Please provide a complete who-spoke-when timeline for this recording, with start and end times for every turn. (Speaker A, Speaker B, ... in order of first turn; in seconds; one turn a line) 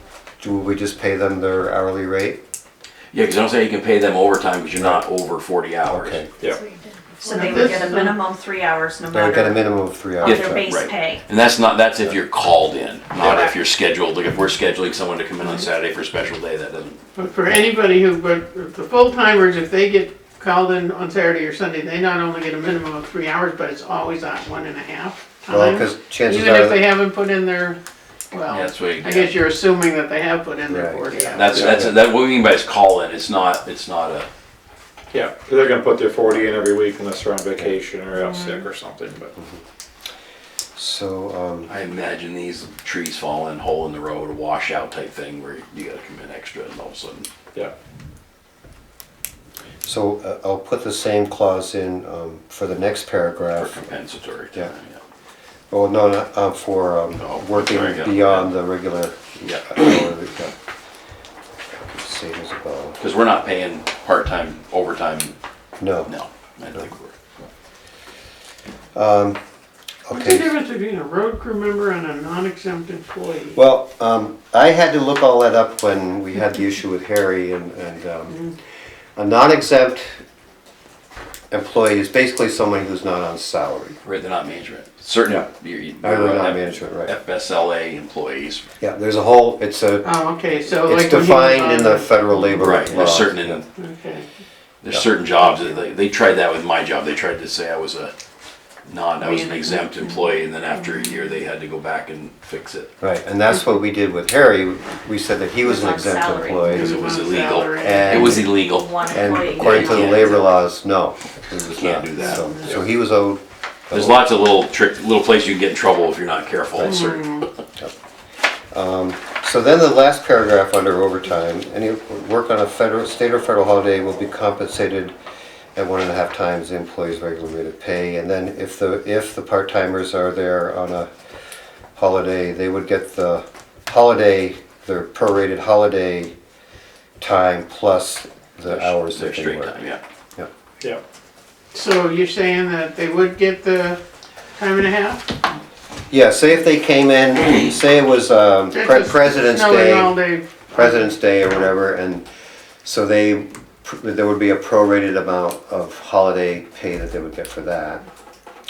Speaker A: 0.4-2.4
Speaker B: 3.1-6.2
Speaker A: 4.7-5.0
Speaker A: 5.8-6.3
Speaker C: 7.2-9.6
Speaker D: 7.2-8.1
Speaker A: 9.1-10.7
Speaker C: 10.2-11.2
Speaker B: 10.2-17.0
Speaker C: 13.2-13.5
Speaker D: 17.1-27.8
Speaker A: 25.5-26.8
Speaker D: 28.3-31.8
Speaker B: 28.5-29.3
Speaker A: 30.7-31.9
Speaker B: 31.3-34.3
Speaker E: 35.1-39.3
Speaker D: 38.2-38.6
Speaker A: 39.4-39.6
Speaker A: 40.8-41.7
Speaker B: 41.7-47.3
Speaker A: 49.8-53.9
Speaker B: 53.5-55.0
Speaker A: 55.7-60.5
Speaker B: 57.2-58.5
Speaker A: 61.7-63.0
Speaker B: 63.0-65.3
Speaker A: 65.8-66.1
Speaker B: 66.1-67.1
Speaker A: 68.9-69.4
Speaker A: 70.1-70.5
Speaker D: 70.1-73.6
Speaker A: 73.5-78.5
Speaker A: 79.2-80.2
Speaker A: 81.5-84.0
Speaker B: 84.0-88.6
Speaker A: 86.0-87.1
Speaker A: 88.8-90.1
Speaker D: 90.0-92.8
Speaker A: 90.7-93.6
Speaker B: 92.5-93.7
Speaker D: 93.8-94.2
Speaker B: 94.8-98.1
Speaker B: 98.9-102.9
Speaker D: 99.2-100.2
Speaker D: 100.8-101.3
Speaker A: 103.0-107.1
Speaker C: 105.6-107.2
Speaker D: 106.6-108.4
Speaker B: 106.8-108.9
Speaker A: 107.8-114.2
Speaker C: 108.3-110.5
Speaker B: 109.5-110.3
Speaker B: 111.6-112.4
Speaker D: 112.2-112.8
Speaker B: 113.9-117.3
Speaker D: 116.8-117.5
Speaker A: 118.7-125.1
Speaker A: 125.7-131.1
Speaker A: 131.9-136.3
Speaker A: 137.2-140.5
Speaker B: 138.7-140.0
Speaker D: 141.7-144.0
Speaker D: 144.6-145.3
Speaker A: 146.1-150.2
Speaker D: 148.7-151.1
Speaker A: 150.7-152.2
Speaker A: 152.8-158.0